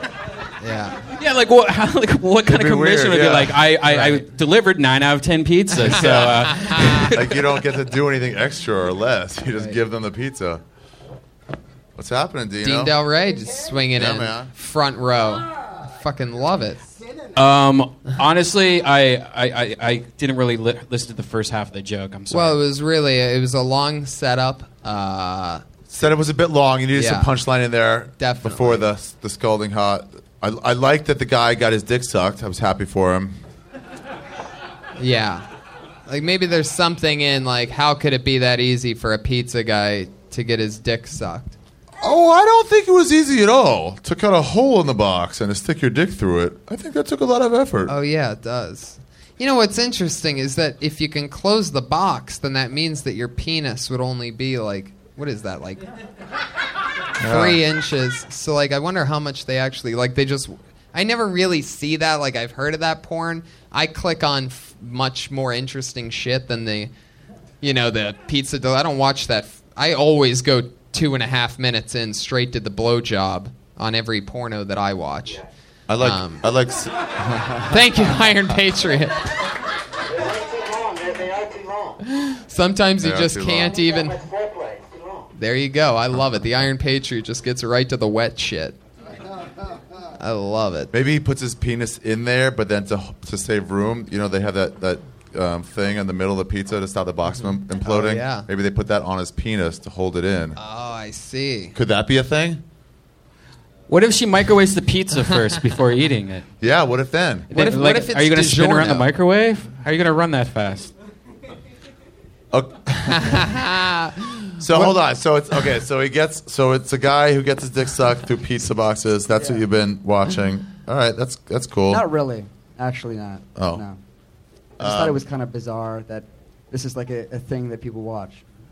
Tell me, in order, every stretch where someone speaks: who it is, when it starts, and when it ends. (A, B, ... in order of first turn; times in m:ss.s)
0:00.6-0:01.0 A
0:01.2-0:07.5 B
0:02.4-0:03.7 C
0:03.9-0:04.2 A
0:05.8-0:07.1 A
0:07.1-0:10.6 C
0:12.0-0:12.9 C
0:12.6-0:16.9 A
0:14.0-0:14.5 C
0:17.4-0:22.6 B
0:22.3-0:25.6 A
0:25.9-0:33.4 C
0:26.9-0:27.3 A
0:28.2-0:28.9 A
0:35.0-0:35.4 A
0:36.1-0:41.6 A
0:42.0-0:47.9 C
0:47.9-0:55.8 A
0:57.2-0:57.6 C
0:57.2-1:06.9 A
1:07.6-1:15.4 A
1:15.9-1:16.9 C
1:16.0-1:16.4 A
1:17.7-1:19.3 A
1:20.1-1:22.0 D
1:22.1-1:24.2 A
1:23.0-1:23.8 C
1:23.6-1:25.3 D
1:25.4-1:28.8 A
1:30.2-1:30.9 A
1:30.9-1:40.6 C
1:37.8-1:38.5 A
1:40.6-1:41.8 A
1:41.8-1:42.6 C
1:43.9-1:46.5 B
1:46.6-1:47.5 C
1:47.5-1:49.1 A
1:47.5-1:50.9 B
1:52.5-1:53.3 C
1:53.1-1:54.6 A
1:54.6-2:02.0 C
1:59.3-1:59.6 E
2:01.9-2:04.0 E
2:03.6-2:03.8 C
2:04.8-2:05.2 C
2:04.8-2:08.4 E